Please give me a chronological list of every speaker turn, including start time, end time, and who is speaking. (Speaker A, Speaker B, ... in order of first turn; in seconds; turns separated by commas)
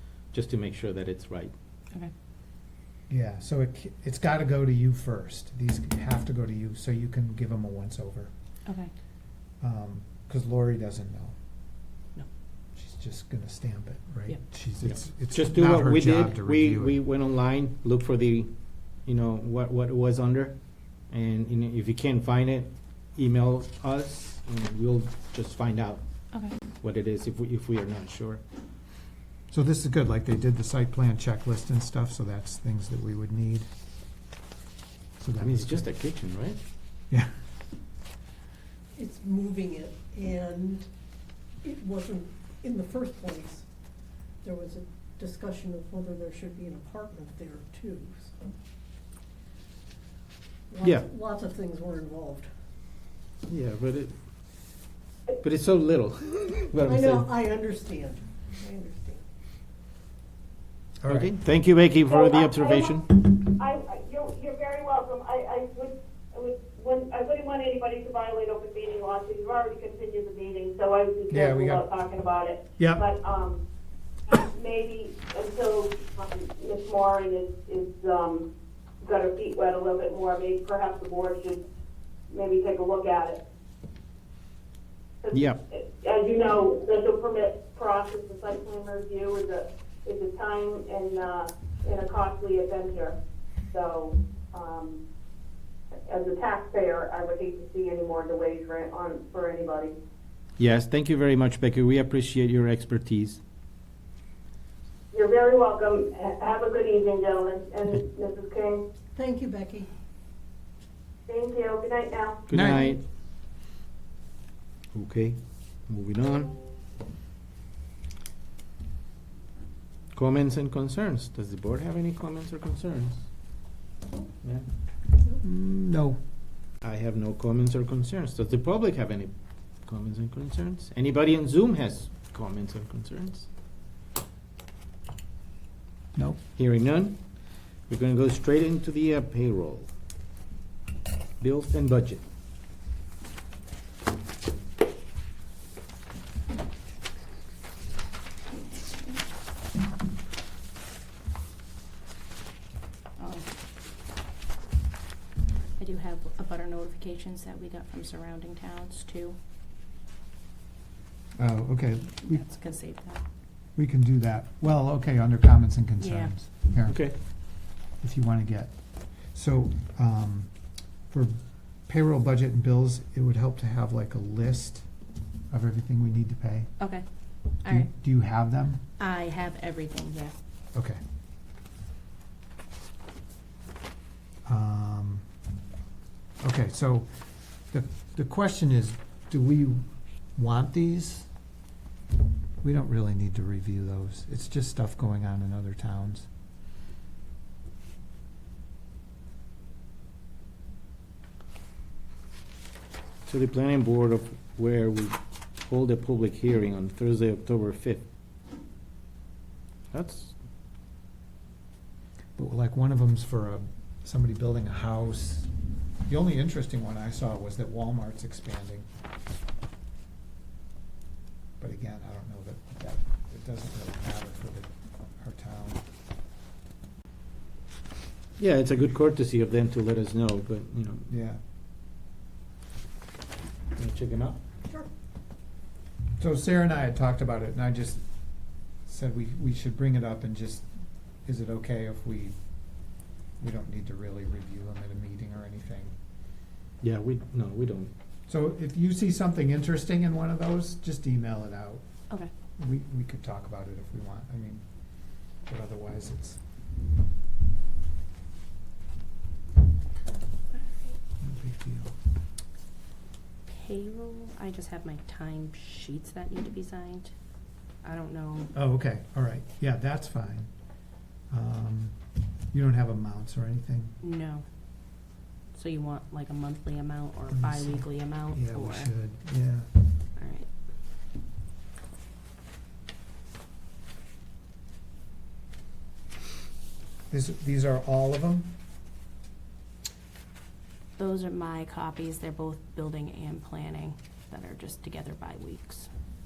Speaker A: 0.3-1.5, Speaker B: 3.1-8.3, Speaker C: 8.7-8.9, Speaker B: 9.6-11.3, Speaker B: 12.7-17.0, Speaker A: 14.8-18.5, Speaker A: 19.0-20.5, Speaker A: 21.1-26.0, Speaker A: 26.8-28.4, Speaker B: 29.5-33.7, Speaker B: 35.2-35.9, Speaker A: 35.4-36.6, Speaker D: 38.9-40.9, Speaker D: 41.6-43.7, Speaker D: 44.4-48.4, Speaker D: 50.7-52.5, Speaker A: 53.5-54.1, Speaker A: 55.4-57.2, Speaker D: 56.8-59.2, Speaker B: 61.0-61.3, Speaker A: 61.0-63.1, Speaker E: 62.1-73.6, Speaker B: 71.3-71.9, Speaker B: 72.8-73.0, Speaker E: 74.3-78.5, Speaker E: 79.0-81.6, Speaker E: 82.3-83.4, Speaker E: 85.2-93.2, Speaker A: 85.3-85.6, Speaker E: 93.7-95.0, Speaker E: 96.0-99.9, Speaker A: 100.6-103.4, Speaker E: 105.1-108.8, Speaker D: 109.2-109.9, Speaker E: 111.3-112.4, Speaker A: 112.5-113.0, Speaker B: 112.5-112.9, Speaker A: 114.9-116.5, Speaker A: 120.1-123.2, Speaker B: 125.4-126.2, Speaker A: 126.8-129.3, Speaker A: 129.8-133.5, Speaker B: 136.1-136.4, Speaker A: 136.6-137.2, Speaker A: 137.9-139.9, Speaker A: 141.4-142.2, Speaker C: 153.2-153.4, Speaker C: 155.8-159.4, Speaker B: 161.4-162.4, Speaker C: 162.3-163.2, Speaker B: 163.8-167.0, Speaker C: 166.0-166.3, Speaker A: 166.9-167.2, Speaker B: 168.0-168.7, Speaker B: 169.3-170.5, Speaker B: 171.1-174.9, Speaker B: 175.5-176.7, Speaker C: 177.6-177.9, Speaker B: 177.7-178.8, Speaker C: 179.0-180.3, Speaker B: 180.7-181.0, Speaker B: 184.4-185.2, Speaker B: 186.4-191.3, Speaker B: 192.6-196.3, Speaker A: 203.3-208.0, Speaker A: 209.9-210.3, Speaker B: 212.4-215.5, Speaker B: 216.1-218.9, Speaker B: 221.6-225.8, Speaker A: 228.4-231.1, Speaker B: 231.1-231.4, Speaker A: 233.7-234.4, Speaker B: 236.2-238.0, Speaker B: 238.8-240.7, Speaker B: 241.2-242.3, Speaker B: 243.4-245.9, Speaker A: 246.8-247.9, Speaker B: 248.3-251.8, Speaker B: 252.6-254.6, Speaker B: 255.5-256.4, Speaker B: 261.2-261.9, Speaker C: 263.5-267.1, Speaker C: 267.8-268.5, Speaker B: 268.5-270.5, Speaker B: 271.3-271.9, Speaker B: 272.5-273.9, Speaker C: 274.0-274.4, Speaker C: 275.5-278.9, Speaker B: 277.3-279.7, Speaker C: 280.2-280.5, Speaker B: 287.1-288.5, Speaker C: 291.0-295.9